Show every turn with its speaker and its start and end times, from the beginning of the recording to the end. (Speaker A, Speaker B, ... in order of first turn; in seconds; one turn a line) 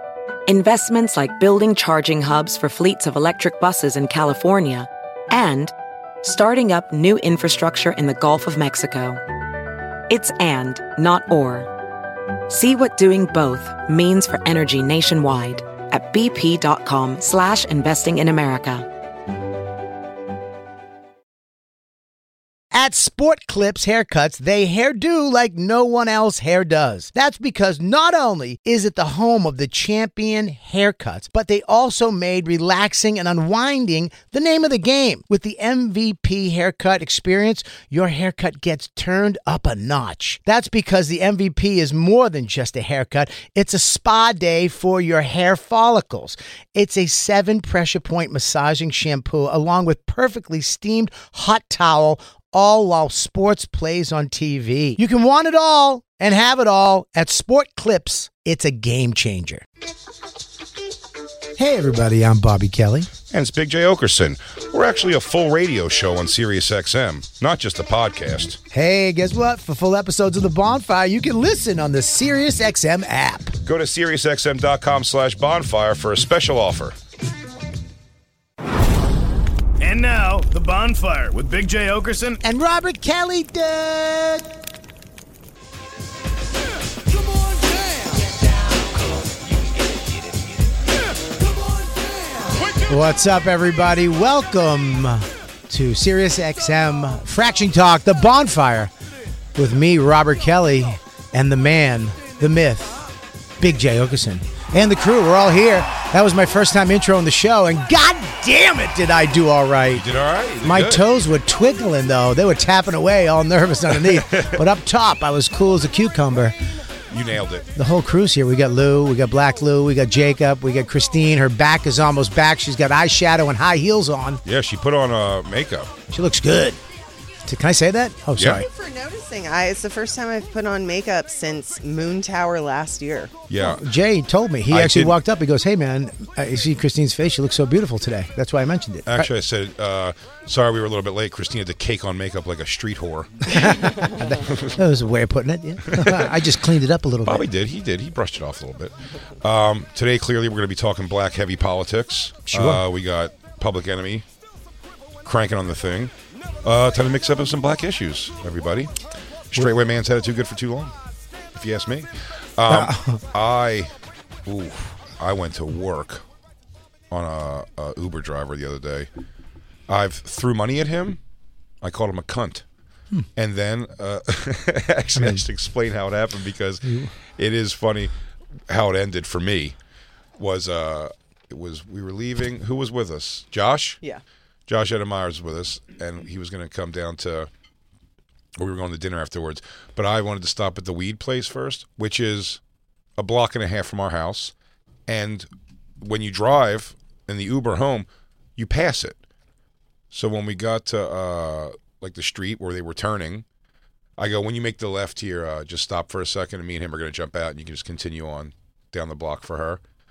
Speaker A: 0.5-9.2
Speaker A: 10.1-11.7
Speaker A: 12.5-18.9
Speaker B: 22.7-59.6
Speaker B: 61.6-63.1
Speaker C: 63.3-68.6
Speaker B: 68.7-73.6
Speaker C: 73.6-77.0
Speaker D: 79.8-82.4
Speaker B: 82.4-84.5
Speaker B: 92.9-98.9
Speaker B: 99.5-103.0
Speaker B: 103.6-110.0
Speaker C: 109.9-111.0
Speaker B: 110.6-116.5
Speaker C: 114.0-114.6
Speaker C: 117.1-117.7
Speaker B: 117.8-124.4
Speaker C: 124.5-125.9
Speaker B: 126.1-126.8
Speaker B: 127.5-128.7
Speaker C: 128.4-128.7
Speaker E: 128.7-133.3
Speaker C: 133.5-133.9
Speaker B: 133.6-139.3
Speaker C: 134.7-135.2
Speaker C: 139.1-143.5
Speaker B: 143.5-147.4
Speaker C: 145.9-146.5
Speaker C: 147.2-154.2
Speaker B: 152.5-152.8
Speaker C: 155.2-156.1
Speaker C: 156.6-158.9
Speaker C: 159.5-160.9
Speaker C: 161.6-163.9
Speaker B: 162.7-163.2
Speaker C: 164.5-166.2
Speaker C: 167.1-169.1
Speaker C: 169.9-171.2
Speaker C: 171.8-172.6
Speaker C: 173.4-176.8
Speaker B: 175.2-175.4
Speaker B: 176.8-177.1
Speaker C: 177.4-178.1
Speaker C: 178.7-179.8
Speaker C: 180.4-184.0
Speaker C: 184.7-187.5
Speaker C: 188.6-192.6
Speaker C: 193.2-194.5
Speaker C: 195.1-195.5
Speaker C: 196.0-199.2
Speaker C: 200.1-203.4
Speaker C: 204.2-209.8